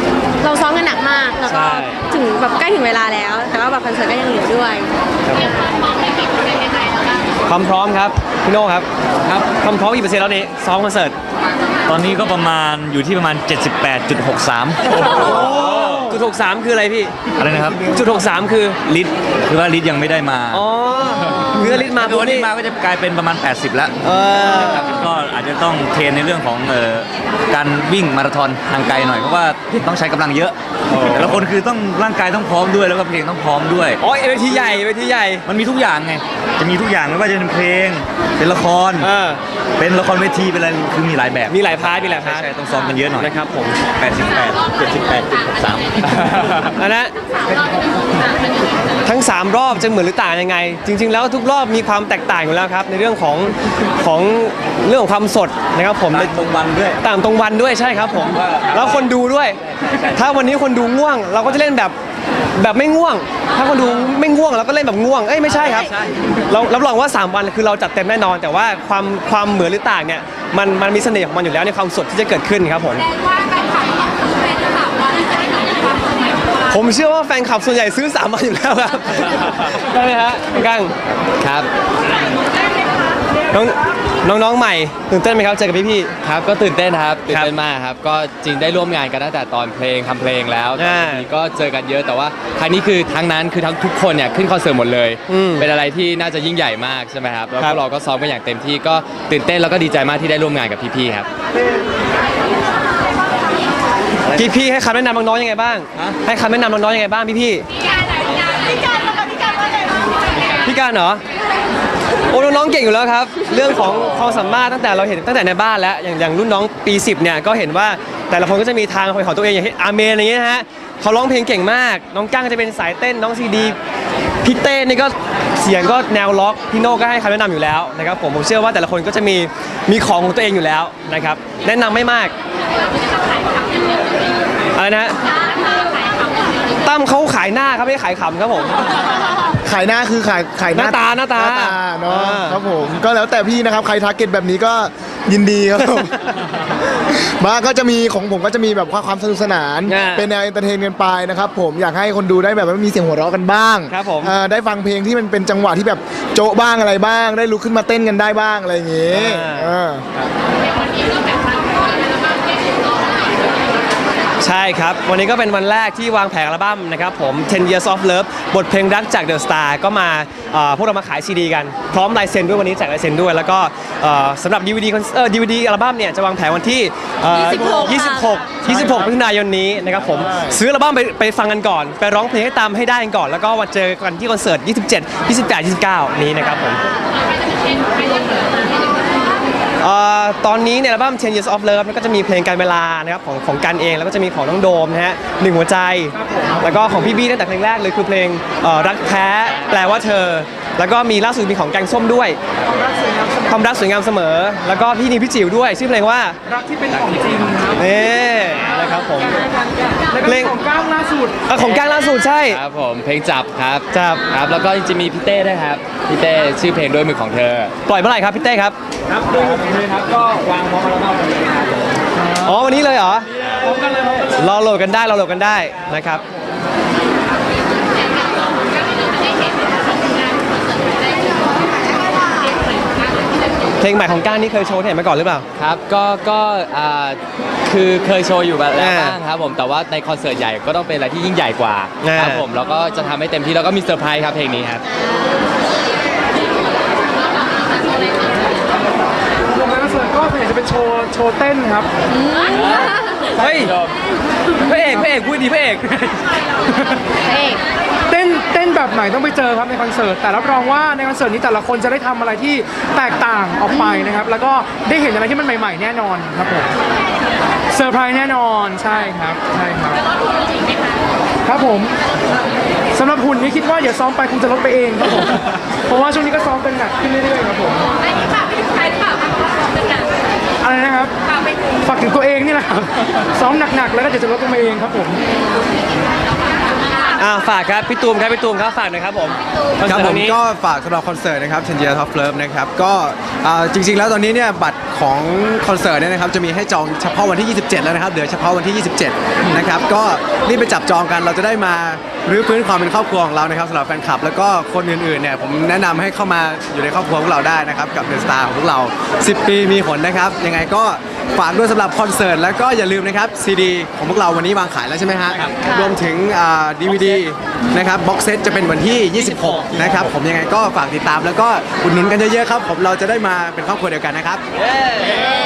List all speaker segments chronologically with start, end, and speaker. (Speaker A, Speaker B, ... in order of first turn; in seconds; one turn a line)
Speaker A: 0.4-4.9
Speaker B: 1.4-2.0
Speaker B: 5.3-5.5
Speaker B: 7.5-11.1
Speaker C: 11.9-16.0
Speaker B: 15.0-17.1
Speaker C: 17.4-18.1
Speaker B: 17.9-18.8
Speaker C: 18.9-20.6
Speaker B: 20.5-22.5
Speaker C: 21.3-34.0
Speaker B: 24.0-24.9
Speaker B: 34.0-35.5
Speaker C: 35.5-39.1
Speaker B: 39.0-39.4
Speaker C: 39.8-43.4
Speaker B: 41.5-42.5
Speaker B: 43.1-43.8
Speaker C: 43.9-46.7
Speaker B: 46.7-47.1
Speaker B: 49.0-56.4
Speaker C: 56.1-57.0
Speaker B: 57.0-59.6
Speaker C: 58.4-59.0
Speaker B: 60.1-61.9
Speaker B: 62.5-65.9
Speaker B: 66.5-73.0
Speaker B: 76.7-80.9
Speaker D: 81.4-81.7
Speaker B: 83.5-86.1
Speaker D: 86.2-101.3
Speaker B: 90.8-91.2
Speaker B: 95.3-95.7
Speaker B: 97.5-97.8
Speaker B: 104.3-107.6
Speaker B: 110.6-111.2
Speaker B: 112.3-123.8
Speaker B: 124.4-132.3
Speaker B: 134.7-135.1
Speaker B: 136.8-138.9
Speaker E: 139.6-146.2
Speaker B: 140.7-142.6
Speaker E: 147.1-160.1
Speaker B: 149.8-150.3
Speaker B: 153.9-154.3
Speaker B: 159.1-159.7
Speaker B: 164.4-186.8
Speaker A: 177.5-177.8
Speaker E: 178.7-178.9
Speaker E: 180.0-180.6
Speaker B: 189.8-202.4
Speaker F: 202.7-203.4
Speaker B: 203.3-206.4
Speaker F: 206.5-207.8
Speaker B: 207.8-209.5
Speaker F: 210.1-211.4
Speaker B: 210.2-210.6
Speaker B: 211.5-212.6
Speaker D: 212.5-217.7
Speaker B: 213.9-214.2
Speaker B: 217.8-218.7
Speaker D: 219.8-220.3
Speaker C: 219.9-220.4
Speaker B: 222.3-223.3
Speaker B: 224.2-226.2
Speaker B: 233.8-235.4
Speaker D: 235.6-244.8
Speaker B: 238.7-239.2
Speaker B: 242.0-242.4
Speaker F: 249.5-251.9
Speaker A: 252.1-253.0
Speaker B: 253.3-253.7
Speaker B: 254.6-256.2
Speaker A: 257.2-257.6
Speaker F: 258.1-266.7
Speaker A: 263.7-264.1
Speaker F: 267.7-270.0
Speaker F: 271.4-271.9
Speaker F: 272.9-277.9
Speaker F: 280.6-281.1
Speaker F: 281.8-285.2
Speaker B: 287.2-290.4
Speaker G: 289.8-324.4